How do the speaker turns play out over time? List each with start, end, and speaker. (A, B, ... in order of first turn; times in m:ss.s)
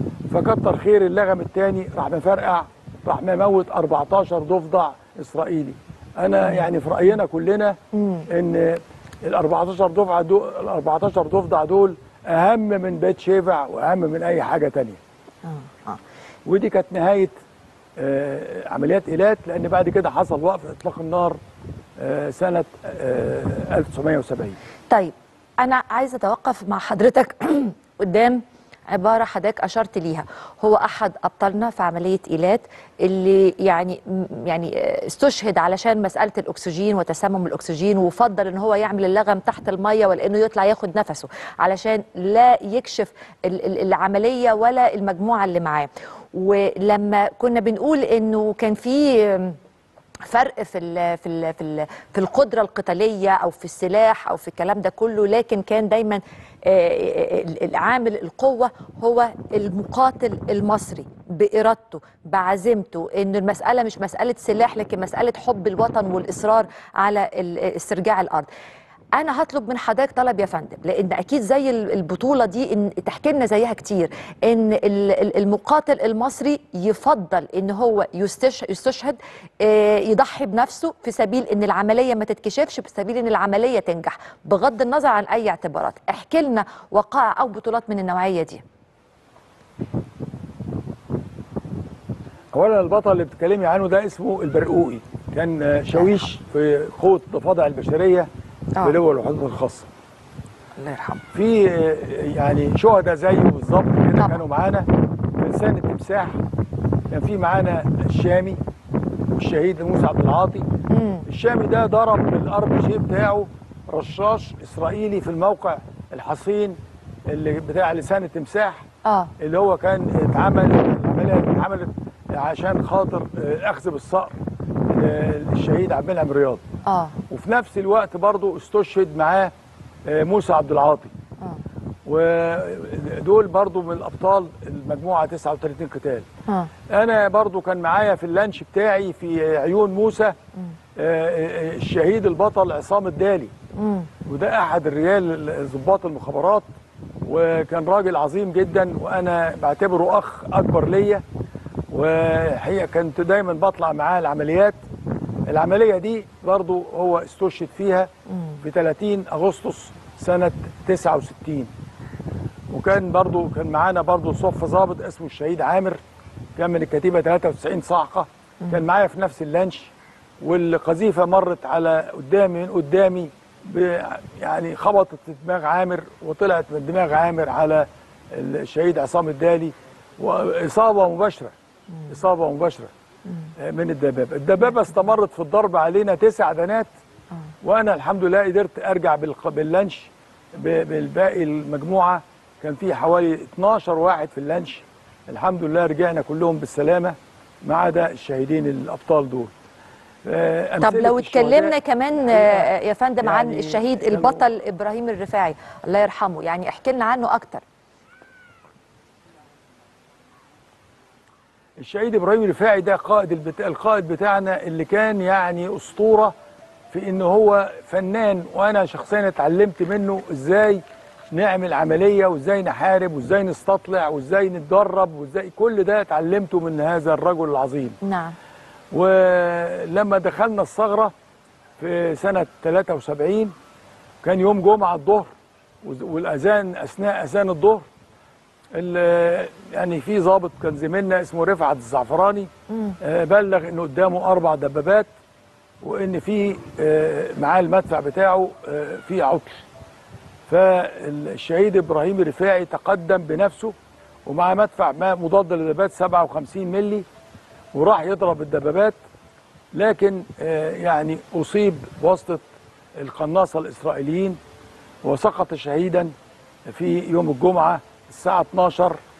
0:00.3-0:07.8 A
0:07.9-0:08.3 B
0:08.3-0:15.0 A
0:15.4-0:16.0 B
0:16.4-0:17.3 A
0:18.0-0:21.4 A
0:22.0-0:24.6 A
0:24.9-0:49.6 B
0:50.2-1:08.5 B
1:09.1-1:28.6 B
1:32.5-1:38.3 A
1:35.9-1:36.2 B
1:38.8-1:39.9 A
1:40.8-1:41.2 B
1:41.3-1:44.9 A
1:45.4-1:46.4 A
1:47.1-1:48.6 A
1:49.4-1:50.6 A
1:50.9-1:51.2 B
1:51.3-1:58.8 A
1:59.0-1:59.3 B
1:59.4-2:04.4 A
2:04.9-2:06.6 A
2:06.8-2:07.2 B
2:07.3-2:09.5 A
2:10.0-2:11.1 A
2:12.0-2:16.2 A
2:16.9-2:20.3 A
2:21.0-2:23.5 A
2:23.7-2:24.1 B
2:24.2-2:26.7 A
2:27.2-2:31.2 A
2:31.9-2:34.8 A
2:35.5-2:41.7 A
2:42.7-2:46.0 A
2:46.6-3:01.5 A
3:02.1-3:02.9 A
3:03.6-3:06.9 A
3:07.6-3:19.5 A
3:20.2-3:22.7 A
3:20.8-3:27.6 B
3:23.2-3:24.4 A
3:31.8-3:36.3 A
3:36.9-3:40.8 A
3:41.3-3:48.0 A
3:48.0-3:48.4 B
3:48.9-3:51.1 A
3:51.8-3:53.5 A
3:54.2-3:57.9 A
3:58.7-4:05.1 A
4:05.8-4:09.6 A
4:10.5-4:13.7 A
4:14.2-4:17.0 A
4:17.7-4:19.0 A
4:19.7-4:24.4 A
4:25.0-4:26.1 A
4:26.7-4:29.0 A